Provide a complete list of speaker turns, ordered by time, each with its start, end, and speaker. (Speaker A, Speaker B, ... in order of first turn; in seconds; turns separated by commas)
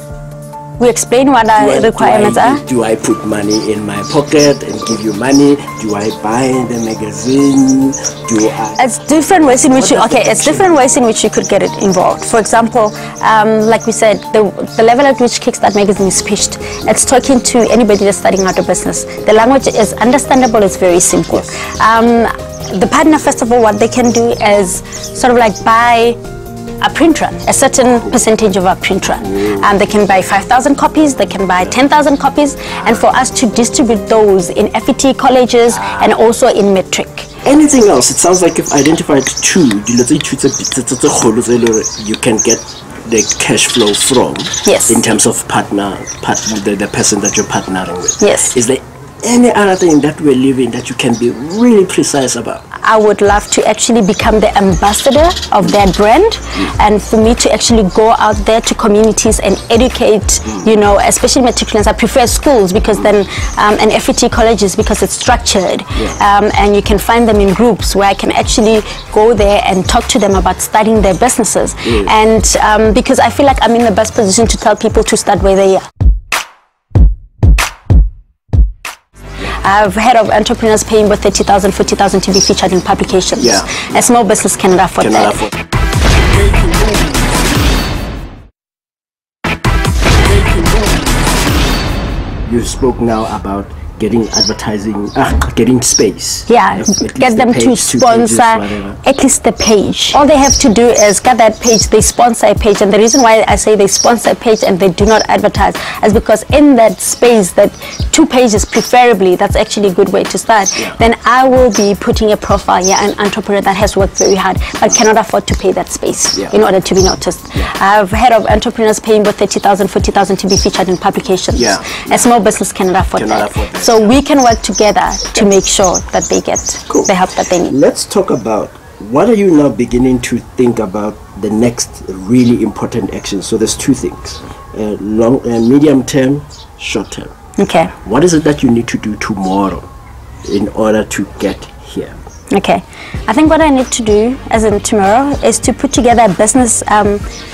Speaker A: 0.8-2.6, Speaker B: 1.6-8.8, Speaker A: 8.8-26.2, Speaker B: 9.5-10.8, Speaker A: 26.8-37.3, Speaker B: 27.9-28.2, Speaker B: 29.2-29.7, Speaker B: 35.7-36.1, Speaker B: 37.4-52.6, Speaker A: 44.6-45.0, Speaker A: 48.2-48.5, Speaker A: 52.8-75.8, Speaker B: 60.4-60.7, Speaker B: 71.8-72.1, Speaker A: 79.6-85.4, Speaker B: 83.4-84.0, Speaker B: 85.0-85.5, Speaker B: 92.4-99.0, Speaker A: 96.5-127.7, Speaker B: 121.5-122.2, Speaker B: 123.2-124.1, Speaker B: 127.6-137.3, Speaker A: 137.6-137.9, Speaker B: 137.9-139.9, Speaker B: 140.4-142.2, Speaker A: 142.5-147.2